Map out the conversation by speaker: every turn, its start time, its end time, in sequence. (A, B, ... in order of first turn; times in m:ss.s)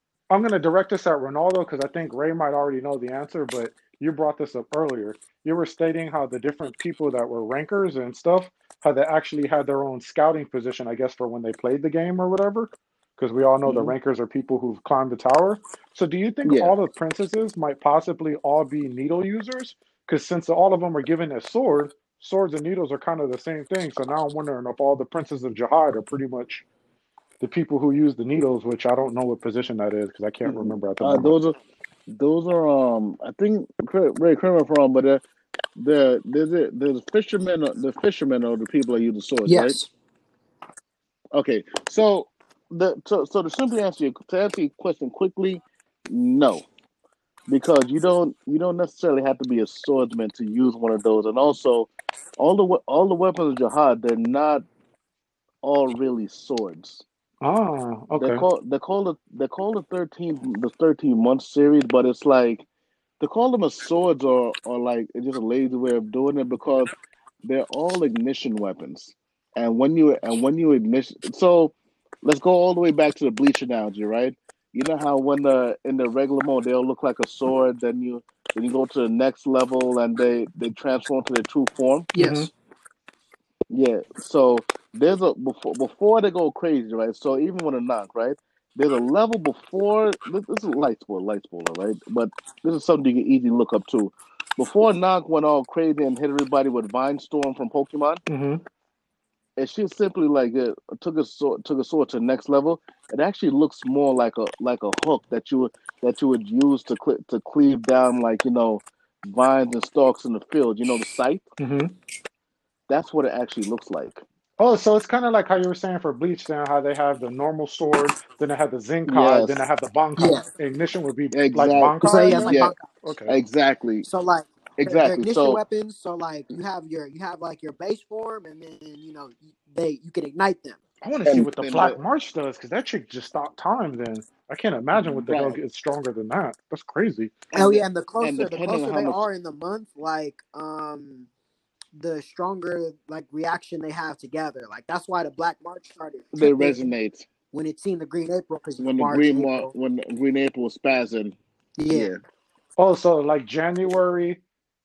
0:00.3-0:26.6 A
0:13.6-0:13.9 B
0:16.4-0:16.8 B
0:27.4-0:31.3 A
0:30.4-0:31.6 B
0:32.1-0:35.2 B
0:35.8-0:39.8 B
0:39.4-0:39.9 C
0:41.3-0:46.6 B
0:47.5-0:54.6 B
0:55.6-0:57.0 B
0:57.4-0:58.4 A
0:58.2-1:02.6 B
1:03.2-1:06.9 B
1:07.4-1:22.1 B
1:22.1-1:22.5 C
1:22.2-1:22.5 A
1:23.7-1:38.2 B
1:38.3-1:38.6 A
1:39.6-1:51.4 B
1:51.6-1:51.9 A
1:52.9-1:54.2 B
1:54.6-2:03.3 A
1:59.1-1:59.6 B
2:00.2-2:00.4 C
2:01.3-2:02.7 B
2:02.0-2:02.9 C
2:03.3-2:04.1 B
2:04.0-2:10.8 C
2:04.8-2:05.6 B
2:11.0-2:17.3 A
2:11.2-2:12.0 B
2:14.9-2:15.6 B
2:17.5-2:19.2 B
2:17.5-2:21.3 C
2:21.9-2:26.9 C
2:26.3-2:27.2 B
2:27.5-2:29.7 C
2:28.8-2:31.4 B
2:31.8-2:32.1 C
2:31.9-2:32.2 B
2:32.8-2:34.4 A